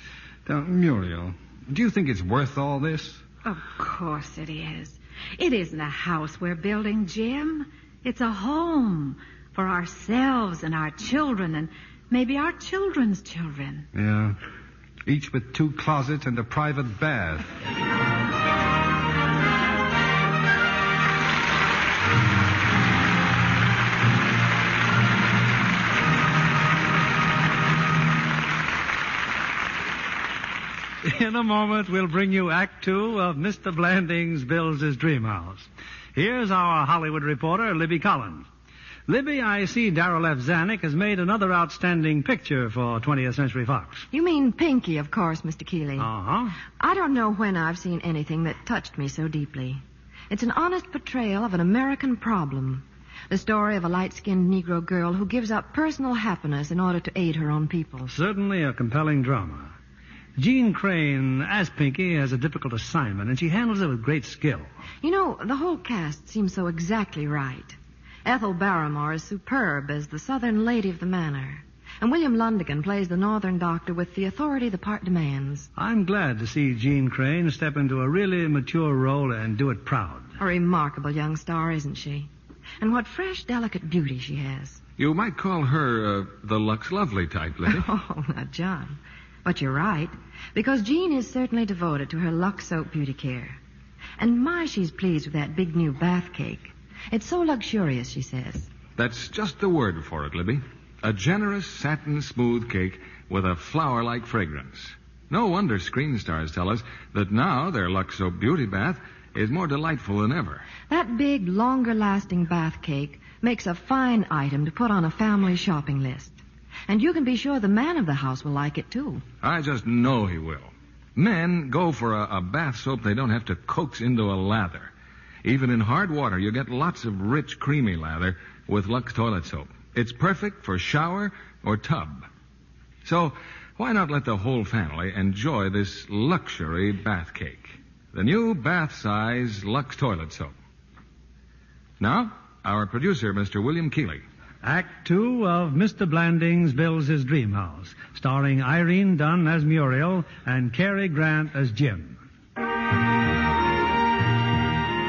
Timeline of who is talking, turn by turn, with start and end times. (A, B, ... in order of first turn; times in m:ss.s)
0:00.4-0:03.2 A
0:03.4-0:13.9 B
0:13.9-0:14.4 A
0:15.0-0:17.5 A
0:31.0-0:38.5 C
0:39.1-0:44.0 C
0:44.1-0:46.1 D
0:46.0-0:46.5 C
0:46.8-0:58.1 D
0:58.1-0:59.7 C
1:00.4-1:04.7 C
1:05.0-1:15.7 D
1:15.8-1:20.3 C
1:20.4-1:22.3 D
1:22.8-1:24.8 D
1:25.0-1:27.8 E
1:27.7-1:33.6 D
1:34.2-1:38.7 D
1:39.0-1:50.6 E
1:50.9-1:59.2 D
1:59.4-2:04.9 E
2:05.4-2:12.3 E
2:13.0-2:20.5 E
2:22.0-2:24.2 E
2:24.6-2:32.2 C